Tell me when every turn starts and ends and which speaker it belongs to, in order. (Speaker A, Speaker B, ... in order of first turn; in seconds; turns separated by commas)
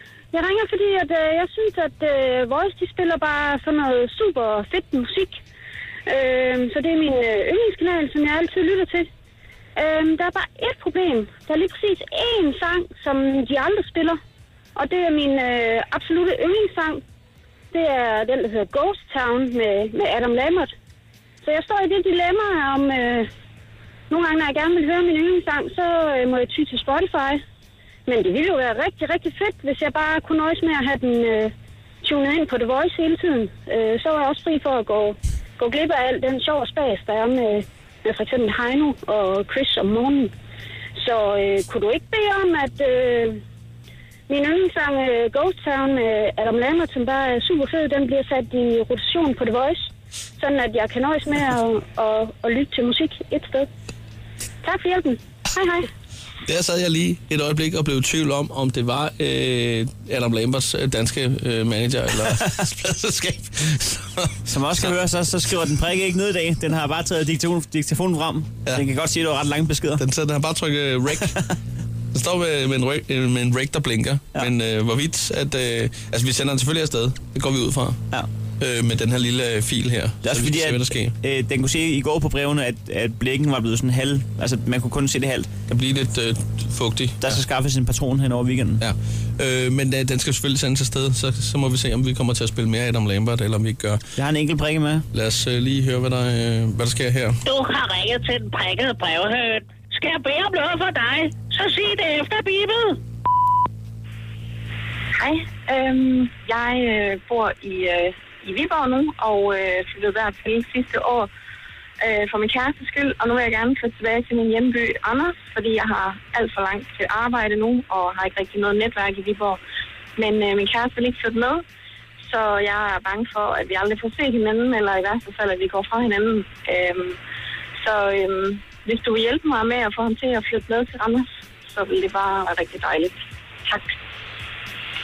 Speaker A: 0.3-5.4, Speaker A: 6.1-9.1, Speaker A: 9.8-14.2, Speaker A: 14.8-17.0, Speaker A: 17.7-20.7, Speaker A: 21.4-23.3, Speaker A: 24.1-27.4, Speaker A: 28.1-40.3, Speaker A: 41.0-43.4, Speaker A: 44.3-53.7, Speaker A: 54.6-55.9, Speaker B: 56.4-65.0, Speaker C: 64.5-70.0, Speaker B: 70.0-71.4, Speaker B: 72.1-78.0, Speaker B: 78.6-81.2, Speaker C: 80.2-85.5, Speaker B: 85.7-87.4, Speaker C: 87.2-88.8, Speaker B: 88.8-94.0, Speaker C: 94.2-95.1, Speaker B: 95.1-97.4, Speaker D: 97.5-103.0, Speaker E: 105.2-111.3, Speaker E: 112.0-119.6, Speaker E: 120.2-121.6, Speaker E: 122.2-127.2, Speaker E: 127.8-133.9